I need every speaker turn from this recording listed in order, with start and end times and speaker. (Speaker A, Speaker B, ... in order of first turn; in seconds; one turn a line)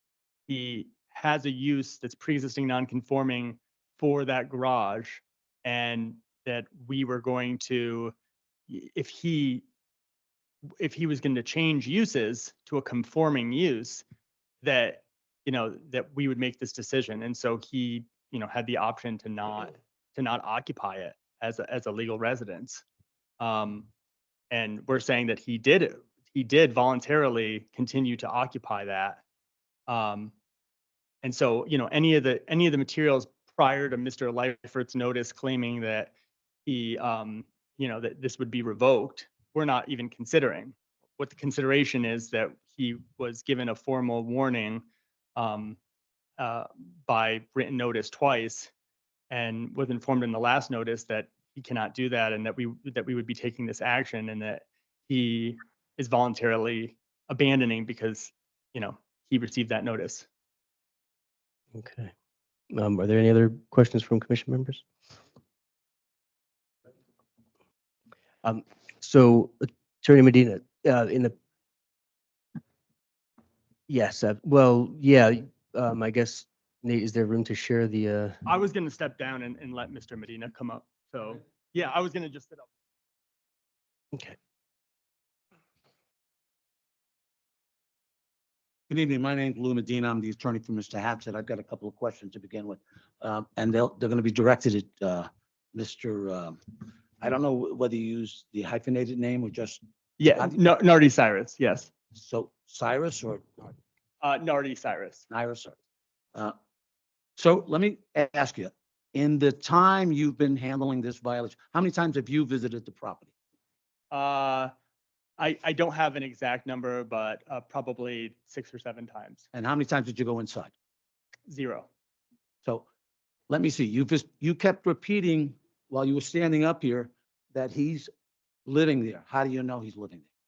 Speaker A: 0.5-8.1
Speaker A: 8.7-9.6
Speaker A: 10.8-14.0
Speaker A: 14.6-22.8
Speaker A: 23.4-23.9
Speaker A: 24.5-29.2
Speaker A: 29.9-30.3
Speaker A: 31.2-36.1
Speaker A: 36.6-44.8
Speaker A: 45.4-45.8
Speaker A: 46.4-48.7
Speaker A: 49.3-60.2
Speaker B: 61.7-62.1
Speaker B: 62.7-64.8
Speaker B: 68.4-71.3
Speaker B: 73.9-78.4
Speaker A: 78.5-82.7
Speaker C: 88.9-99.8
Speaker A: 100.2-101.9
Speaker C: 102.1-103.7
Speaker A: 104.2-105.2
Speaker C: 105.3-105.8
Speaker C: 107.4-113.3
Speaker A: 114.1-114.7
Speaker A: 115.4-119.4
Speaker C: 119.5-120.7
Speaker A: 121.5-121.9
Speaker C: 123.5-128.1
Speaker C: 128.7-130.2